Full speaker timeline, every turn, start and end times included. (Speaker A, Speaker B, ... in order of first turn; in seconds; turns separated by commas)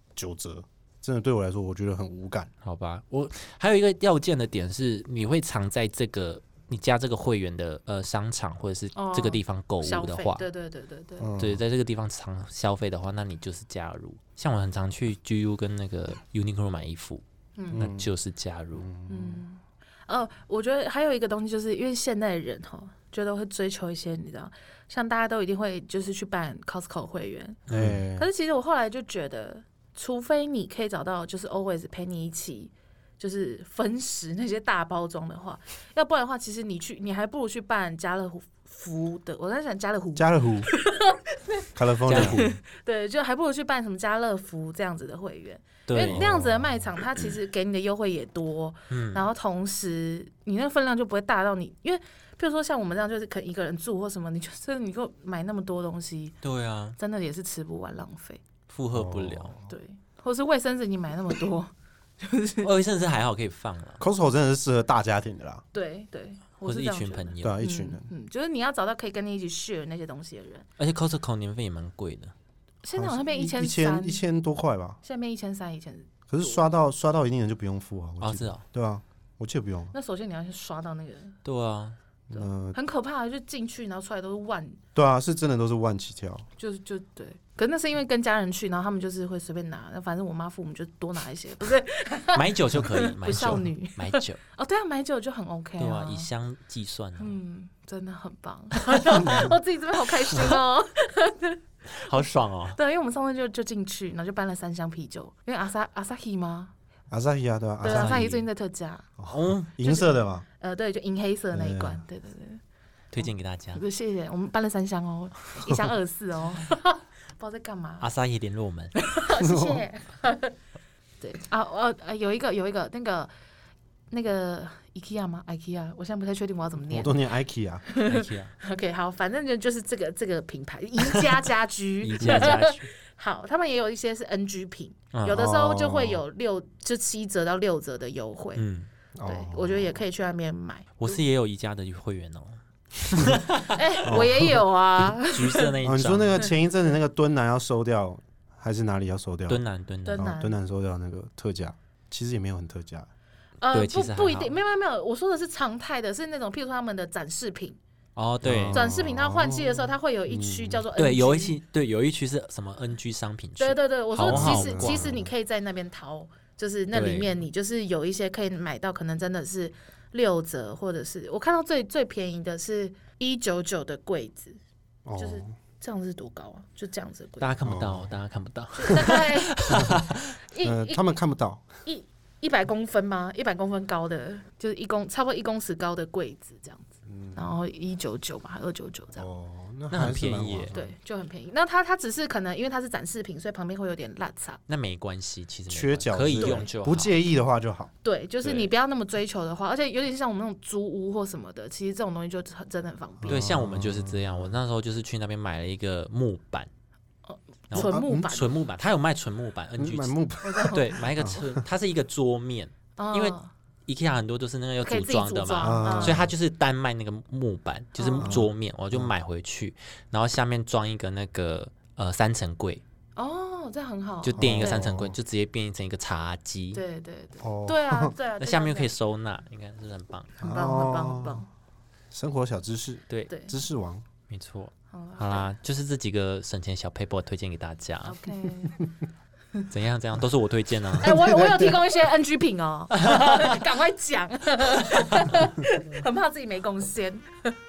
Speaker A: 0.1-2.5, Speaker B: 2.6-10.4, Speaker C: 8.9-11.3, Speaker A: 11.2-11.6, Speaker B: 11.4-18.9, Speaker C: 17.6-17.9, Speaker A: 17.7-18.1, Speaker A: 18.8-19.4, Speaker C: 19.1-27.6, Speaker B: 27.7-28.0, Speaker A: 27.7-28.3, Speaker C: 28.1-56.4, Speaker A: 40.1-40.7, Speaker A: 41.7-42.5, Speaker B: 42.1-42.5, Speaker B: 45.9-46.2, Speaker A: 46.0-46.9, Speaker B: 48.9-49.2, Speaker B: 56.4-57.0, Speaker C: 57.0-58.4, Speaker B: 58.7-59.5, Speaker A: 58.9-59.6, Speaker C: 59.7-62.7, Speaker B: 62.6-64.0, Speaker A: 64.0-65.6, Speaker C: 65.7-70.7, Speaker B: 66.6-67.6, Speaker A: 67.4-68.0, Speaker B: 70.8-72.3, Speaker C: 72.8-74.2, Speaker A: 73.0-75.0, Speaker C: 75.0-76.6, Speaker A: 76.3-79.9, Speaker B: 78.2-78.6, Speaker C: 79.9-81.4, Speaker B: 81.4-82.0, Speaker A: 82.3-82.8, Speaker C: 82.3-84.8, Speaker A: 84.9-86.5, Speaker C: 86.6-96.3, Speaker B: 92.3-94.4, Speaker B: 95.8-97.4, Speaker C: 97.2-106.7, Speaker B: 101.9-102.8, Speaker A: 107.1-108.2, Speaker C: 107.8-109.1, Speaker B: 107.8-108.4, Speaker A: 109.2-110.4, Speaker B: 109.3-109.7, Speaker C: 109.8-112.6, Speaker A: 111.5-112.0, Speaker B: 113.1-113.8, Speaker C: 113.7-118.1, Speaker B: 118.0-118.9, Speaker C: 119.0-120.5, Speaker A: 119.3-119.8, Speaker C: 121.2-123.3, Speaker C: 124.1-127.2, Speaker A: 126.8-127.8, Speaker C: 127.9-138.6, Speaker B: 128.0-128.5, Speaker B: 132.0-132.9, Speaker B: 135.1-135.4, Speaker A: 135.3-136.2, Speaker B: 138.6-138.9, Speaker A: 139.2-140.0, Speaker C: 139.2-141.2, Speaker B: 141.0-144.2, Speaker C: 143.7-145.7, Speaker A: 144.0-144.6, Speaker B: 145.2-146.5, Speaker A: 145.8-149.6, Speaker B: 149.5-150.3, Speaker C: 150.0-150.6, Speaker A: 150.2-153.1, Speaker C: 153.6-157.8, Speaker B: 153.7-154.5, Speaker B: 158.2-158.8, Speaker A: 158.4-160.8, Speaker C: 158.7-161.6, Speaker B: 160.9-165.0, Speaker C: 163.6-174.6, Speaker A: 164.3-165.3, Speaker B: 166.9-167.3, Speaker A: 175.1-175.5, Speaker C: 175.2-177.5, Speaker B: 177.4-180.3, Speaker A: 177.6-178.1, Speaker C: 178.7-181.0, Speaker A: 179.7-180.0, Speaker A: 180.6-181.6, Speaker C: 181.8-189.3, Speaker A: 187.1-187.5, Speaker A: 189.2-190.9, Speaker B: 189.9-190.7, Speaker C: 190.7-194.6, Speaker B: 194.7-197.1, Speaker A: 195.7-197.9, Speaker C: 196.3-196.7, Speaker C: 198.0-203.5, Speaker B: 198.4-198.7, Speaker A: 203.2-204.6, Speaker B: 203.2-206.7, Speaker C: 207.2-208.5, Speaker B: 207.7-210.1, Speaker A: 207.7-208.3, Speaker A: 209.8-211.6, Speaker C: 210.4-210.9, Speaker B: 210.7-222.8, Speaker C: 213.0-213.5, Speaker C: 214.8-216.2, Speaker A: 215.6-216.3, Speaker C: 217.9-218.3, Speaker A: 218.2-219.1, Speaker C: 223.2-224.9, Speaker B: 224.2-226.8, Speaker A: 224.4-225.1, Speaker C: 226.7-228.9, Speaker A: 227.4-228.1, Speaker B: 228.4-230.3, Speaker C: 230.4-231.5, Speaker A: 230.4-231.4, Speaker A: 232.1-234.0, Speaker C: 233.3-233.5, Speaker B: 234.3-238.3, Speaker C: 234.9-235.6, Speaker C: 238.0-238.8, Speaker B: 239.7-241.2, Speaker C: 241.0-247.5, Speaker A: 241.0-241.8, Speaker B: 242.9-243.6, Speaker B: 244.8-245.3